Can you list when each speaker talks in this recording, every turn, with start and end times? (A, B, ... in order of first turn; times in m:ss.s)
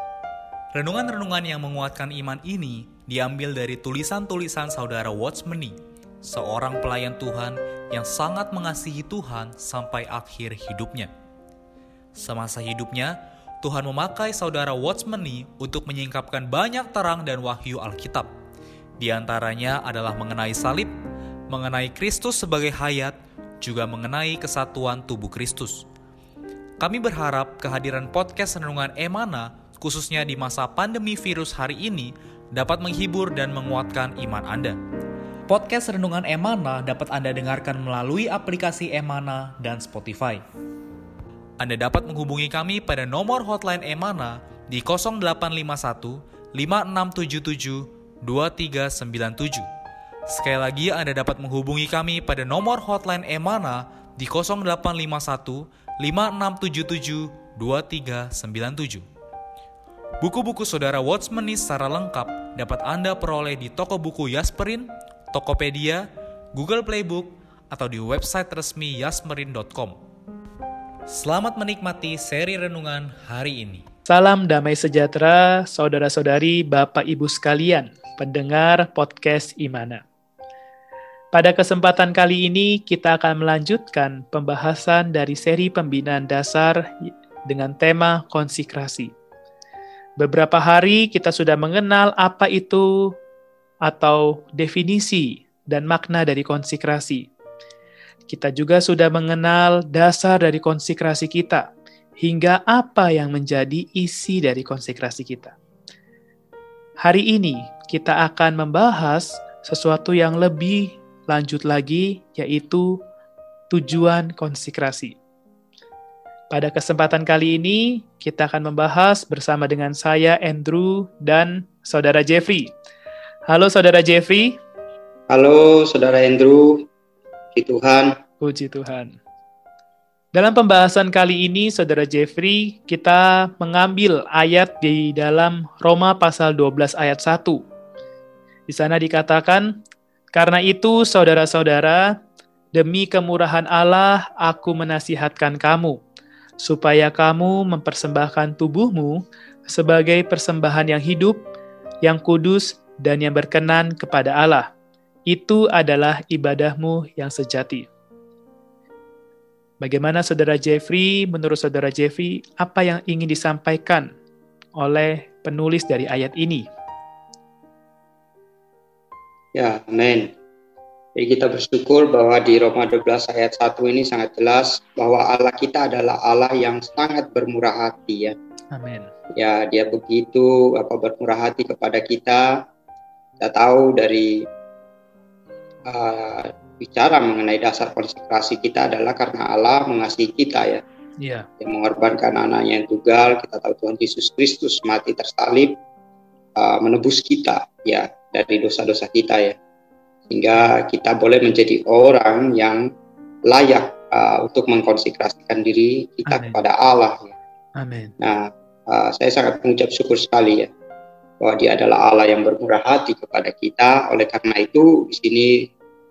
0:00.7-0:11.1 A
0:12.2-0:18.3 A
0:19.0-0:20.9 A
0:21.5-0:25.8 A
0:26.8-0:34.8 A
0:35.5-0:40.4 A
0:41.6-0:49.6 A
0:50.3-0:59.0 A
1:00.2-1:06.0 A
1:06.5-1:10.0 A
1:11.1-1:13.8 A
1:14.1-1:20.0 B
1:21.3-1:29.1 B
1:30.2-1:33.1 B
1:33.8-1:37.3 B
1:38.3-1:41.7 B
1:42.2-1:45.5 B
1:47.0-1:52.9 B
1:53.7-1:55.1 B
1:56.5-2:02.7 B
2:03.5-2:04.6 B
2:05.3-2:06.9 C
2:07.5-2:08.1 C
2:08.4-2:09.1 B
2:10.3-2:17.6 B
2:18.7-2:19.7 B
2:20.3-2:22.1 B
2:22.7-2:26.0 B
2:26.6-2:31.4 B
2:32.0-2:34.7 B
2:35.3-2:37.9 B
2:39.8-2:44.1 B
2:44.8-2:46.6 B
2:49.5-2:50.3 C
2:51.2-2:58.3 C
2:58.7-2:59.1 B
2:59.4-3:02.5 C
3:03.4-3:04.4 C
3:05.8-3:10.8 C
3:11.2-3:11.5 B
3:11.6-3:15.7 C
3:16.6-3:19.5 C
3:20.3-3:22.8 C
3:23.5-3:27.3 C
3:26.3-3:26.6 B
3:27.8-3:28.1 B
3:28.2-3:30.7 C
3:31.4-3:35.6 C